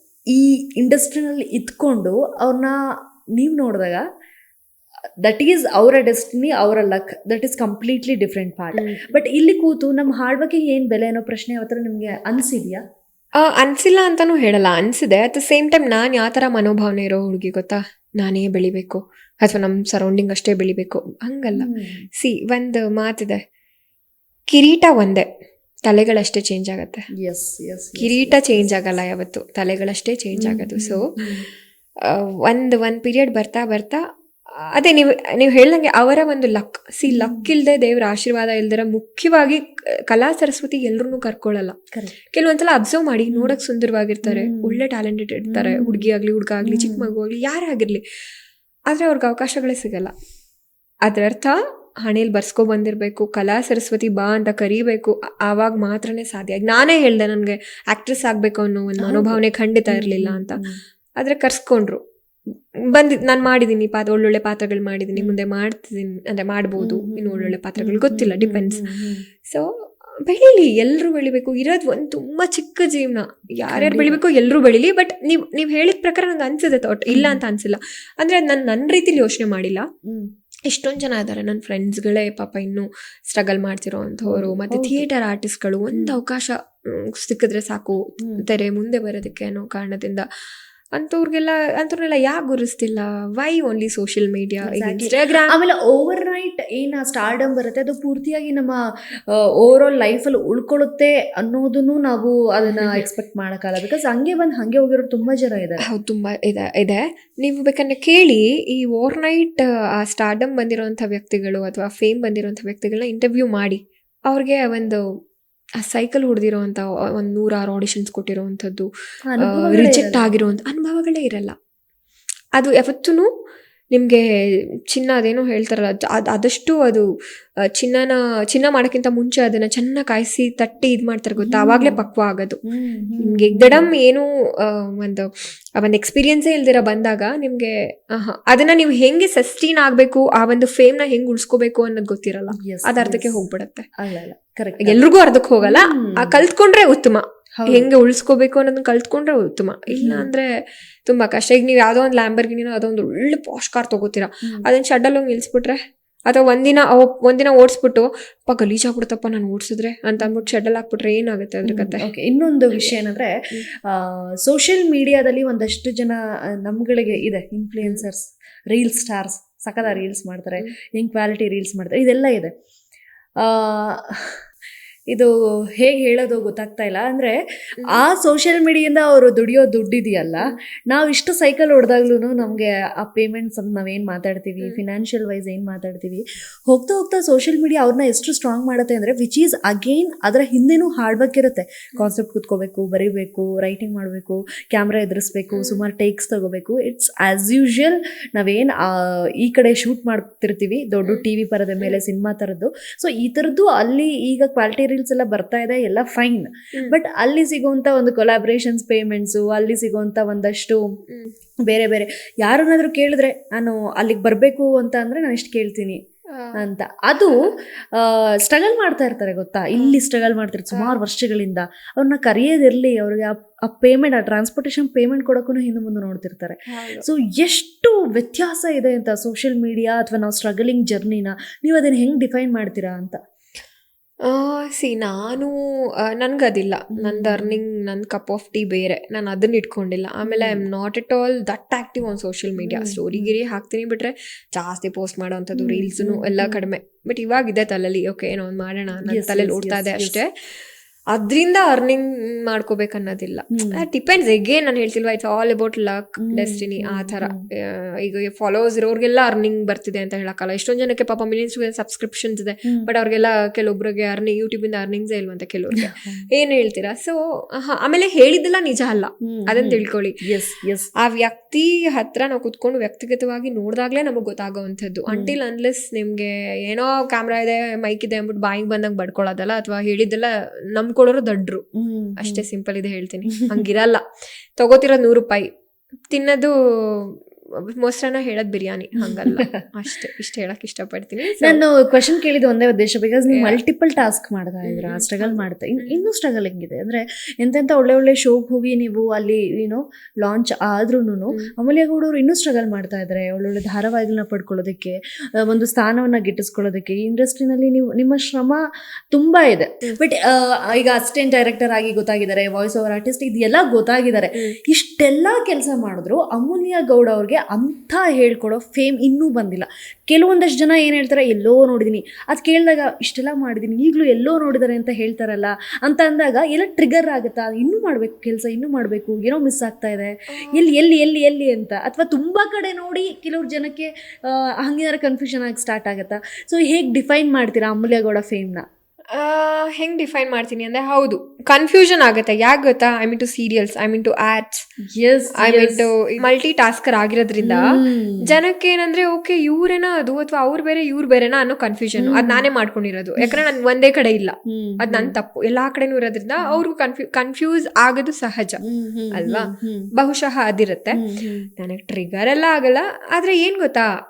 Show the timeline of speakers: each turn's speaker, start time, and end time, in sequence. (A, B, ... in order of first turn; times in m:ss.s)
0:00.3-0:02.8 A
0:03.4-0:04.0 A
0:05.2-0:12.8 A
0:08.7-0:09.2 B
0:13.4-0:23.4 B
0:21.6-0:22.1 A
0:24.5-0:25.3 B
0:25.9-0:27.0 B
0:27.2-0:29.0 A
0:28.0-0:31.1 B
0:30.4-0:31.4 A
0:32.0-0:34.0 B
0:34.6-0:41.8 B
0:37.1-0:37.5 A
0:42.3-0:48.0 B
0:44.3-0:44.8 A
0:45.5-0:46.1 A
0:46.6-0:47.1 A
0:48.9-0:50.1 B
0:51.1-1:00.6 B
0:59.0-1:00.8 A
1:01.2-1:02.0 B
1:02.9-1:08.8 B
1:06.8-1:09.2 A
1:10.2-1:19.9 B
1:13.7-1:14.2 A
1:17.1-1:17.4 A
1:20.7-1:30.3 B
1:24.3-1:25.1 A
1:25.9-1:26.2 A
1:30.9-1:35.6 B
1:34.7-1:38.8 A
1:39.6-1:45.8 A
1:42.7-1:43.0 B
1:45.9-1:55.0 B
1:55.8-1:58.9 B
1:59.3-2:00.3 A
1:59.4-2:01.6 B
2:02.6-2:03.3 B
2:03.9-2:04.2 B
2:04.9-2:07.0 B
2:07.8-2:12.6 B
2:11.4-2:12.0 A
2:12.7-2:13.9 A
2:13.2-2:23.9 B
2:22.6-2:23.4 A
2:24.0-2:25.0 A
2:24.8-2:30.5 B
2:25.6-2:26.4 A
2:27.6-2:27.9 A
2:29.9-2:30.3 A
2:31.1-2:42.1 B
2:41.6-2:43.3 A
2:43.8-2:52.5 A
2:53.4-2:54.4 A
2:55.1-3:30.9 A
3:15.5-3:15.8 B
3:31.7-3:36.0 A
3:36.6-3:37.4 A
3:38.0-3:53.2 A
3:40.7-3:41.0 B
3:46.7-3:47.0 B
3:54.3-3:55.5 B
3:56.1-4:10.3 B
3:57.0-3:57.6 A
4:00.3-4:00.6 A
4:02.6-4:03.3 A
4:05.6-4:06.6 A
4:09.1-4:10.2 A
4:11.1-4:30.2 B
4:13.5-4:13.8 A
4:16.3-4:17.4 A
4:25.8-4:26.3 A
4:29.2-4:30.9 A
4:31.0-4:41.6 B
4:41.8-4:42.4 A
4:42.2-4:44.0 B
4:43.3-4:43.6 A
4:44.6-4:45.5 B
4:46.1-4:47.2 B
4:47.8-4:51.6 B
4:49.0-4:49.6 A
4:51.4-5:08.6 A
4:53.3-4:53.6 B
4:54.7-4:56.1 B
5:09.1-5:38.6 A
5:39.1-5:44.6 B
5:45.0-5:45.9 A
5:45.4-5:58.6 B
5:47.4-5:48.3 A
5:52.0-5:52.5 A
5:54.5-5:55.2 A
5:58.6-5:59.9 A
5:59.1-6:01.0 B
6:00.9-6:01.5 A
6:01.6-6:03.9 B